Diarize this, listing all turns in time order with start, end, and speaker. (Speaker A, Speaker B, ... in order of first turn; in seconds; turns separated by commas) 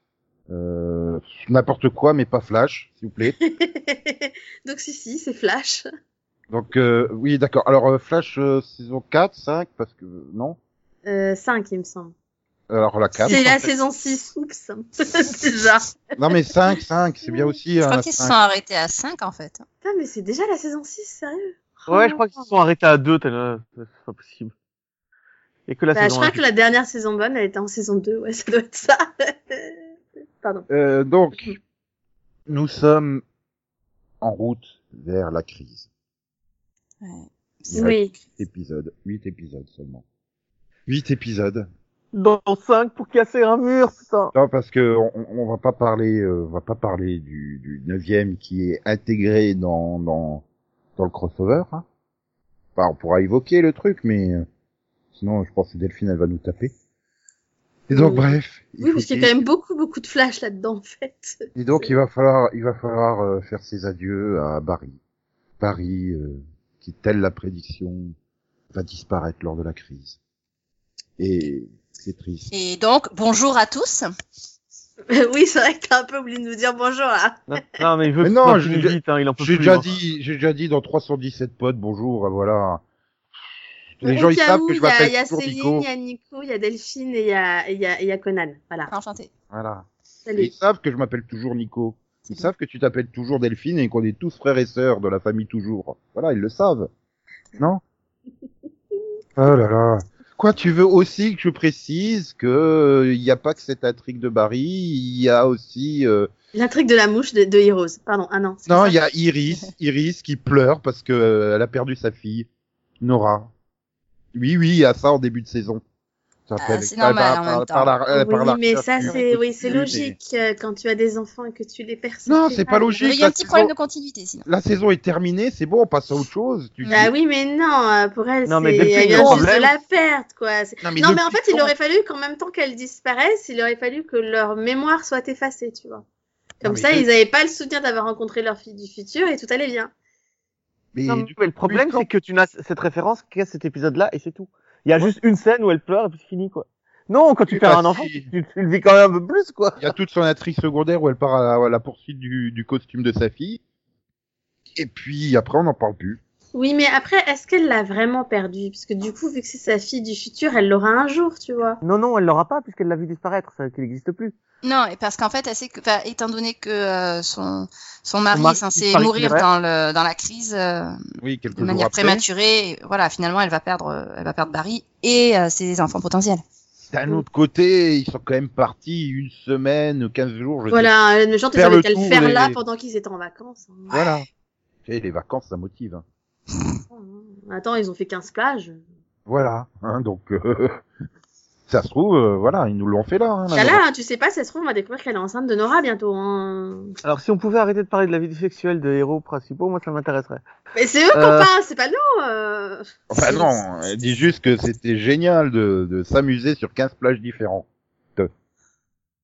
Speaker A: 0.5-3.4, Speaker B: 3.2-5.8, Speaker A: 6.5-10.6, Speaker B: 11.1-12.1, Speaker A: 12.7-13.4, Speaker C: 13.2-13.7, Speaker B: 13.2-15.8, Speaker A: 16.2-18.3, Speaker B: 17.2-17.5, Speaker D: 17.8-19.6, Speaker B: 19.8-22.2, Speaker C: 21.9-24.5, Speaker C: 25.7-26.4, Speaker B: 25.9-29.8, Speaker B: 30.4-30.7, Speaker A: 30.7-31.5, Speaker A: 32.5-33.2, Speaker A: 34.2-35.8, Speaker D: 37.0-38.0, Speaker A: 37.7-40.0, Speaker B: 37.7-38.1, Speaker A: 40.9-41.7, Speaker C: 42.1-44.3, Speaker A: 44.3-50.4, Speaker A: 51.0-51.8, Speaker A: 52.8-54.5, Speaker A: 55.1-56.7, Speaker B: 57.9-61.9, Speaker A: 57.9-59.3, Speaker A: 61.5-65.0, Speaker A: 65.6-68.1, Speaker A: 68.7-70.2, Speaker A: 71.2-72.5, Speaker D: 72.5-74.1, Speaker B: 75.1-77.5, Speaker C: 77.5-79.9, Speaker A: 78.2-82.8, Speaker A: 84.0-85.8, Speaker B: 84.0-88.9, Speaker D: 88.9-89.3, Speaker A: 89.5-96.9, Speaker B: 90.2-90.5, Speaker A: 99.4-106.3, Speaker B: 106.5-109.0, Speaker A: 108.7-112.5, Speaker A: 113.0-113.5, Speaker A: 114.3-115.8, Speaker A: 116.5-120.1, Speaker D: 116.6-117.9, Speaker B: 118.1-122.9, Speaker A: 122.3-123.7, Speaker D: 123.0-124.5, Speaker A: 124.5-127.1, Speaker B: 126.9-136.0, Speaker C: 128.4-129.7, Speaker A: 130.8-131.7, Speaker B: 136.6-139.9, Speaker A: 136.6-137.1, Speaker A: 140.9-142.1, Speaker C: 141.1-149.9, Speaker A: 147.5-148.3, Speaker A: 149.8-153.6, Speaker A: 154.8-156.2, Speaker B: 156.5-161.8, Speaker C: 161.8-164.3, Speaker D: 164.6-171.0, Speaker C: 168.3-169.5, Speaker A: 171.2-172.2, Speaker D: 171.5-176.4, Speaker A: 176.9-180.9, Speaker B: 180.7-184.0, Speaker A: 181.5-182.6, Speaker A: 183.9-184.2, Speaker A: 184.8-186.0, Speaker B: 186.9-188.8, Speaker A: 189.3-190.8, Speaker A: 191.7-193.8, Speaker B: 193.5-197.0, Speaker C: 197.0-200.4, Speaker B: 200.7-203.6, Speaker C: 201.1-201.5, Speaker A: 203.1-208.3